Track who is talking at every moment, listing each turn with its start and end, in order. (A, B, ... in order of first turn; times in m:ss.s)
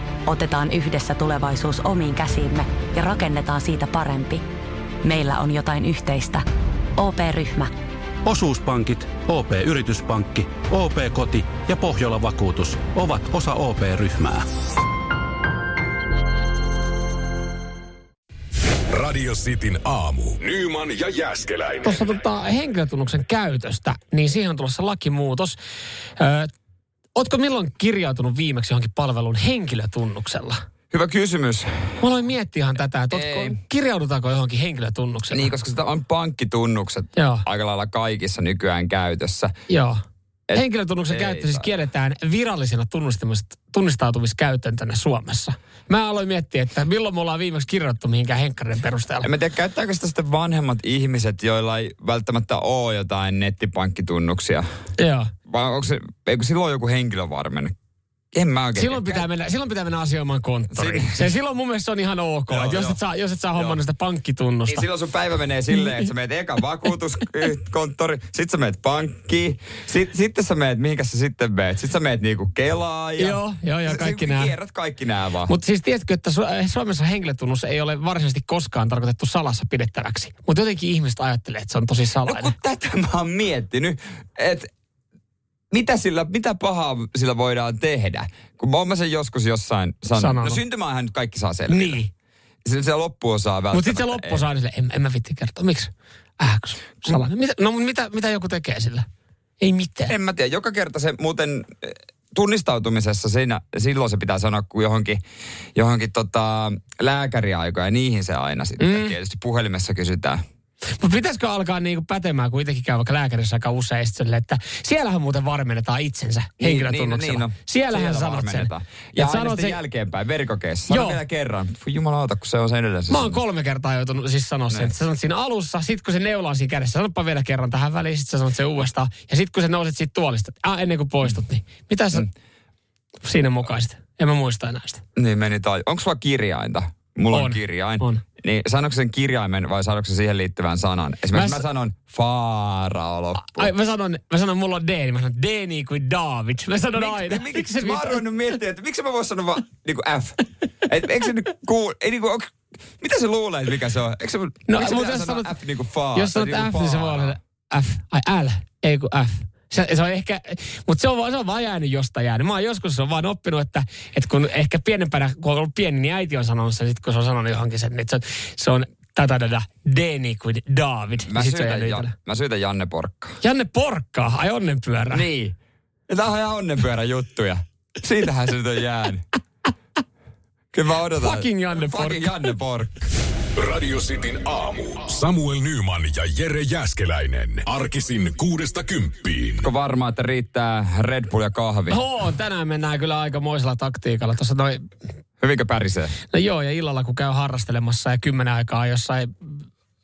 0:00.3-0:04.4 A
0:05.0-0:06.4 A
0:07.0-0:07.7 A
0:08.2-0:14.5 B
0:18.9-0:22.2 C
0:21.8-0:25.6 D
0:26.2-0:26.5 D
0:27.2-0:30.6 D
0:30.9-0:32.0 E
0:32.0-0:35.5 D
0:33.1-0:33.6 E
0:35.3-0:39.5 E
0:37.2-0:37.4 D
0:39.7-0:40.0 D
0:40.5-0:41.7 E
0:40.5-0:49.3 D
0:49.2-0:54.6 E
0:55.0-0:55.3 D
0:55.5-0:57.7 E
0:58.3-0:59.3 E
0:58.8-1:04.8 D
1:00.7-1:01.3 E
1:02.5-1:03.0 E
1:03.6-1:03.8 E
1:04.7-1:15.5 E
1:13.2-1:14.5 D
1:15.5-1:22.5 D
1:22.3-1:24.7 E
1:25.7-1:32.0 E
1:30.2-1:30.6 D
1:31.7-1:32.1 D
1:32.6-1:34.4 E
1:33.7-1:39.1 D
1:39.6-1:40.1 D
1:40.1-1:45.2 E
1:45.8-1:50.4 E
1:48.8-1:49.2 D
1:51.0-1:59.8 D
1:56.6-2:03.4 E
2:00.9-2:01.2 D
2:03.1-2:12.3 D
2:13.2-2:15.0 D
2:15.2-2:23.7 E
2:17.3-2:18.2 D
2:21.3-2:21.6 D
2:23.4-2:28.2 D
2:27.0-2:37.4 E
2:34.7-2:35.5 D
2:36.2-2:52.1 D
2:51.3-2:53.4 E
2:53.4-2:55.2 D
2:55.1-2:55.6 E
2:56.1-2:59.2 E
3:00.7-3:03.1 E
3:01.2-3:02.5 D
3:03.6-3:09.7 C
3:09.6-3:12.0 E
3:11.9-3:14.8 D
3:15.4-3:16.2 E
3:16.3-3:19.6 D